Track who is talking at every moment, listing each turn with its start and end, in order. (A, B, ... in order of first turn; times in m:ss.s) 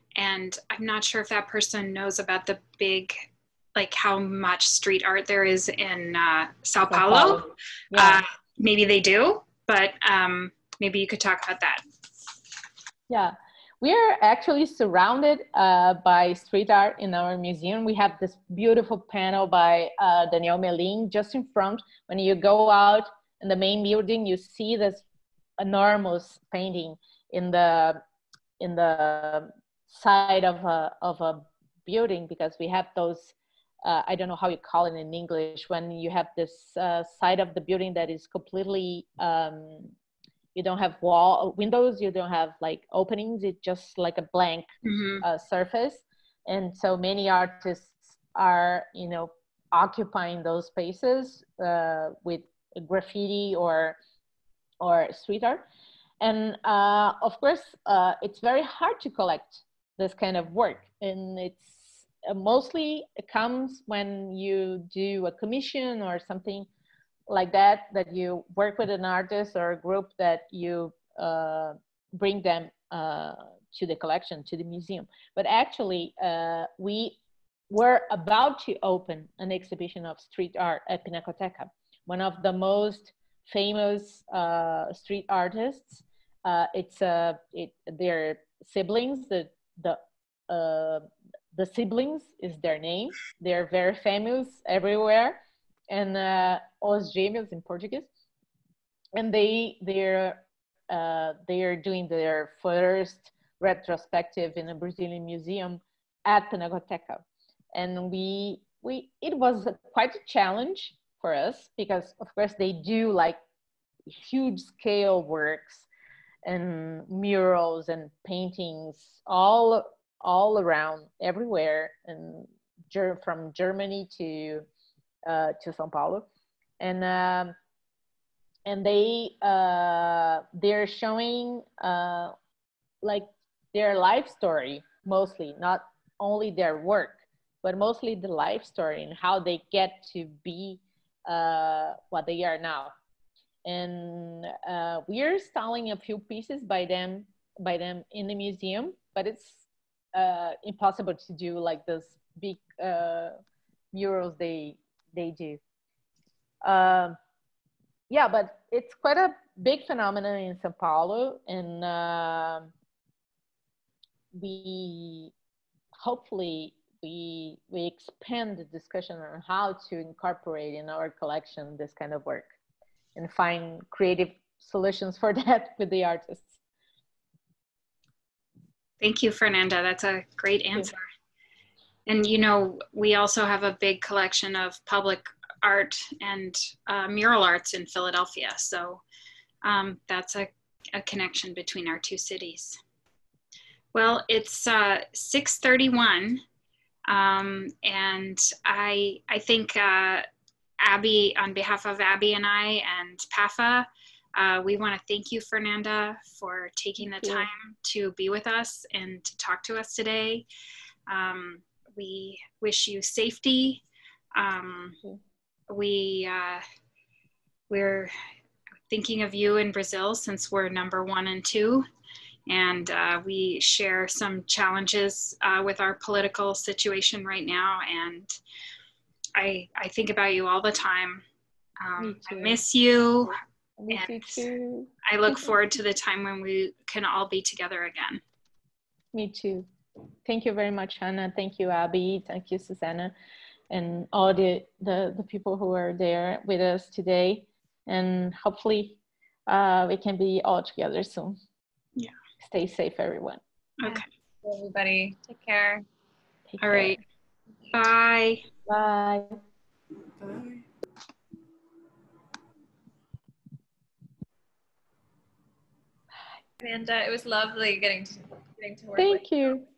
0:00.2-0:11.8 A
0:06.9-0:08.2 B
0:13.1-0:25.0 B
0:25.6-0:28.0 B
0:28.6-0:39.9 B
0:40.6-0:44.7 B
0:44.8-0:45.2 A
0:45.2-0:54.0 B
0:54.8-0:55.6 B
0:56.2-1:06.7 B
1:07.3-1:17.2 B
1:17.7-1:38.1 B
1:39.1-1:53.4 B
1:54.1-1:55.9 B
1:56.4-2:04.7 B
2:05.2-2:06.3 B
2:06.8-2:07.6 B
2:08.7-2:12.3 B
2:13.0-2:22.9 B
2:23.6-2:33.4 B
2:33.9-2:35.6 B
2:36.6-2:37.2 B
2:38.1-2:42.7 B
2:44.3-2:45.3 B
2:46.0-2:52.5 B
2:53.2-2:56.6 B
2:59.0-3:01.0 A
3:02.1-3:09.0 A
3:09.6-3:12.8 A
3:13.9-3:16.4 A
3:17.1-3:20.2 A
3:20.8-3:30.5 A
3:27.0-3:27.5 B
3:31.1-3:33.8 A
3:34.4-3:35.0 A
3:35.7-3:36.6 A
3:37.7-3:38.1 A
3:38.9-3:41.8 A
3:42.5-3:48.4 A
3:49.4-3:51.2 A
3:51.8-3:53.4 A
3:52.0-3:52.6 B
3:53.8-3:55.4 B
3:53.9-3:54.5 A
3:55.0-3:58.2 A
3:59.1-3:59.7 B
4:00.2-4:03.1 B
4:03.7-4:11.4 B
4:12.4-4:13.4 B
4:13.8-4:14.1 A
4:13.9-4:15.8 C
4:16.5-4:17.0 B
4:16.6-4:17.0 A
4:17.7-4:18.4 A
4:18.7-4:19.4 B
4:26.6-4:29.3 C
4:29.0-4:29.6 B